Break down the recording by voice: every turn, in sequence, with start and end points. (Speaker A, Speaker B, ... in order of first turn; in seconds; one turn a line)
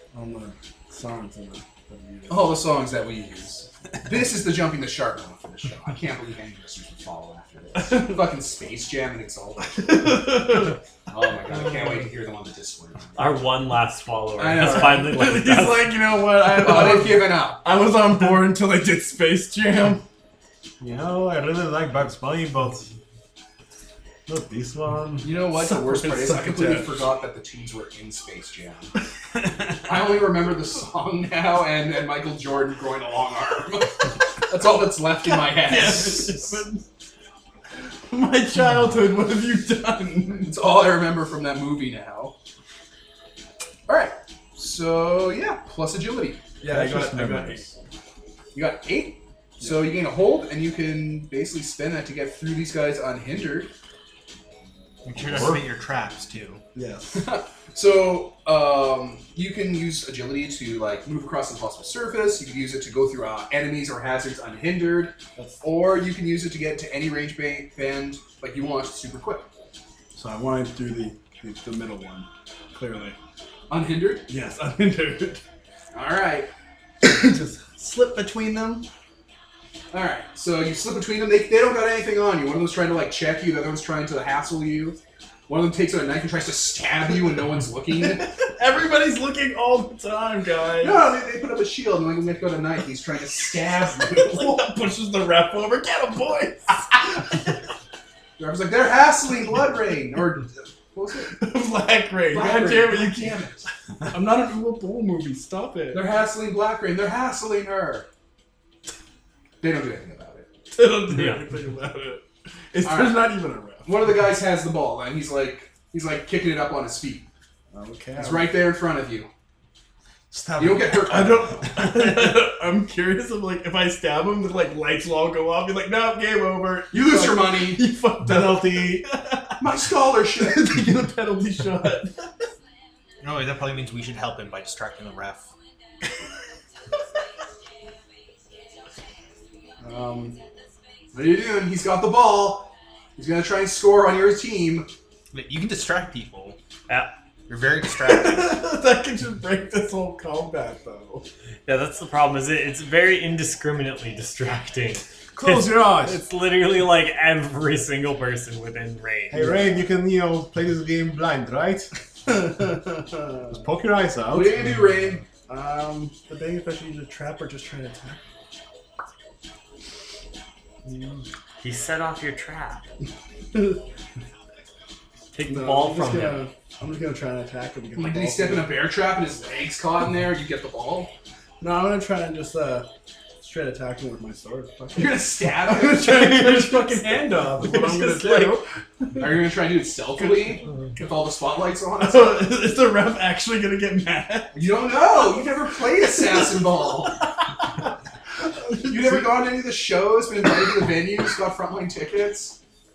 Speaker A: 0.1-2.6
Speaker B: 2.3-9.8
Speaker A: 7.8-8.1
Speaker A: 9.7-10.8
Speaker B: 11.1-13.3
Speaker C: 13.2-16.0
Speaker B: 14.4-15.2
Speaker A: 14.6-20.0
Speaker B: 16.6-17.6
Speaker D: 20.8-22.9
Speaker D: 24.3-25.3
Speaker B: 25.2-28.9
Speaker A: 25.5-26.9
Speaker B: 29.8-36.6
Speaker A: 35.6-36.8
Speaker A: 38.1-40.5
Speaker B: 40.4-42.3
Speaker B: 43.9-46.4
Speaker A: 46.6-47.7
Speaker D: 46.7-47.7
Speaker B: 48.5-53.7
Speaker E: 55.0-56.6
Speaker D: 55.1-55.6
Speaker A: 56.8-57.3
Speaker B: 57.1-69.5
Speaker A: 65.4-65.6
Speaker A: 70.2-73.2
Speaker B: 73.7-74.3
Speaker A: 74.3-75.4
Speaker B: 75.9-76.5
Speaker A: 77.0-78.9
Speaker B: 79.9-88.3
Speaker A: 87.9-91.0
Speaker B: 90.8-94.6
Speaker A: 94.1-97.5
Speaker B: 98.4-101.4
Speaker A: 101.3-103.3
Speaker B: 102.3-103.7
Speaker A: 104.1-106.1
Speaker B: 105.9-108.1
Speaker B: 109.6-110.5
Speaker A: 110.7-113.9
Speaker C: 111.1-111.4
Speaker B: 112.8-113.3
Speaker B: 113.8-117.3
Speaker A: 117.7-118.6
Speaker B: 118.2-119.3
Speaker D: 120.3-122.3
Speaker B: 120.6-121.7
Speaker A: 121.1-129.6
Speaker B: 126.9-127.8
Speaker D: 128.2-129.1
Speaker B: 129.6-130.8
Speaker A: 130.4-132.3
Speaker E: 133.2-135.5
Speaker A: 139.8-140.4
Speaker B: 141.1-144.9
Speaker E: 145.3-146.6
Speaker E: 147.5-148.6
Speaker A: 148.0-151.2
Speaker C: 151.7-159.5
Speaker D: 155.3-156.2
Speaker D: 159.3-161.9
Speaker A: 159.3-159.7
Speaker A: 162.3-163.6
Speaker D: 163.5-164.8
Speaker B: 164.3-165.2
Speaker A: 165.5-168.2
Speaker A: 170.9-171.2
Speaker C: 171.6-172.8
Speaker C: 175.3-176.4
Speaker A: 175.5-178.7
Speaker B: 178.0-181.1
Speaker A: 181.6-182.9
Speaker A: 183.4-189.3
Speaker B: 184.9-186.6
Speaker C: 187.7-188.5
Speaker B: 189.2-192.5
Speaker A: 192.0-194.7
Speaker B: 194.5-197.2
Speaker A: 198.6-199.3
Speaker B: 198.8-202.6